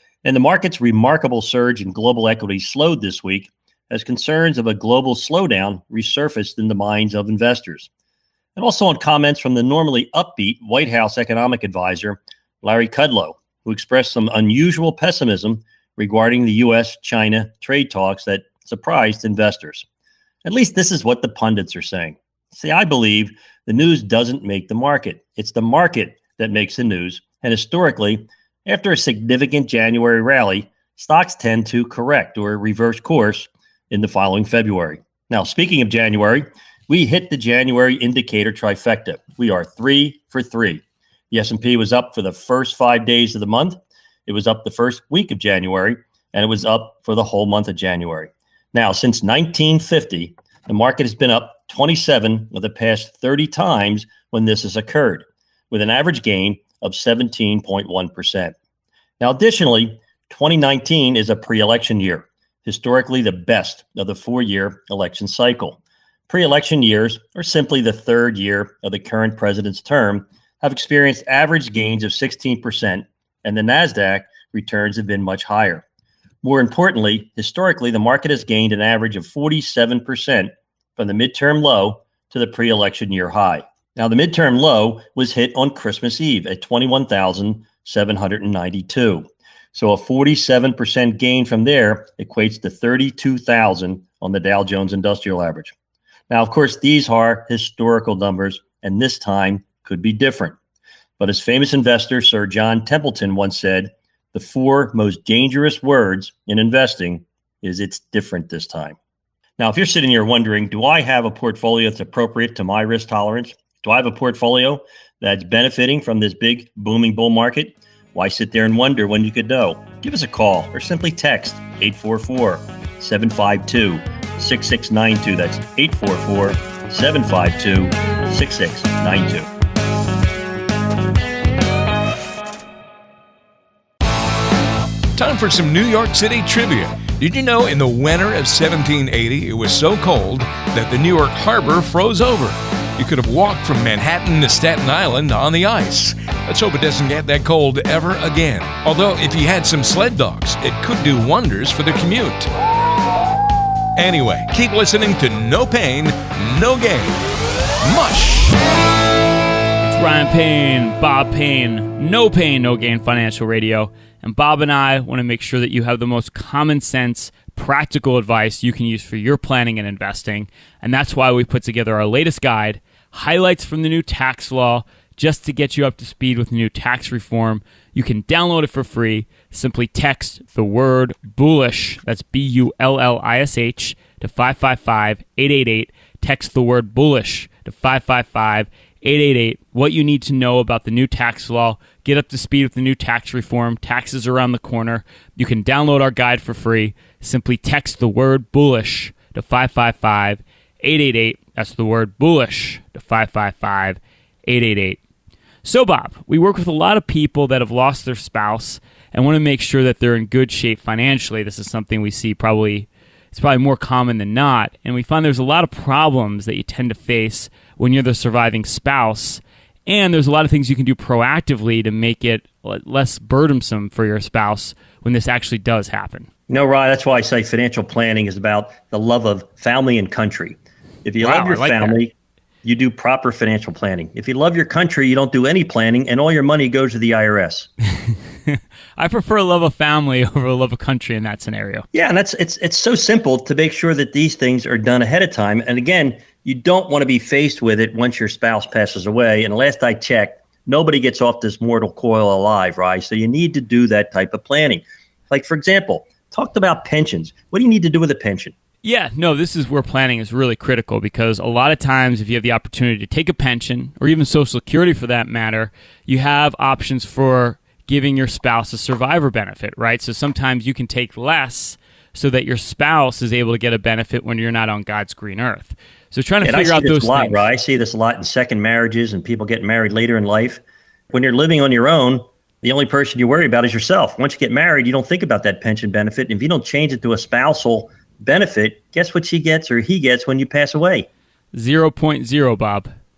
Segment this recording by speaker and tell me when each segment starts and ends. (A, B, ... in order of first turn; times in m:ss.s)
0:00.2-0:07.9 A
0:08.6-0:19.8 A
0:20.4-0:58.5 A
0:59.2-1:15.8 A
1:16.4-1:35.7 A
1:36.3-1:40.6 A
1:41.2-1:49.0 A
1:49.6-2:09.5 A
2:15.1-2:32.5 B
2:34.0-2:37.2 B
2:37.8-2:38.6 B
2:39.8-3:25.0 C
3:25.6-3:46.3 C
3:46.5-3:52.1 A
3:51.2-3:52.0 C
3:52.6-3:57.7 A
3:58.5-4:01.8 C
4:01.9-4:18.5 A
4:18.8-4:37.5 C
4:36.4-4:51.1 A
4:51.5-4:52.9 C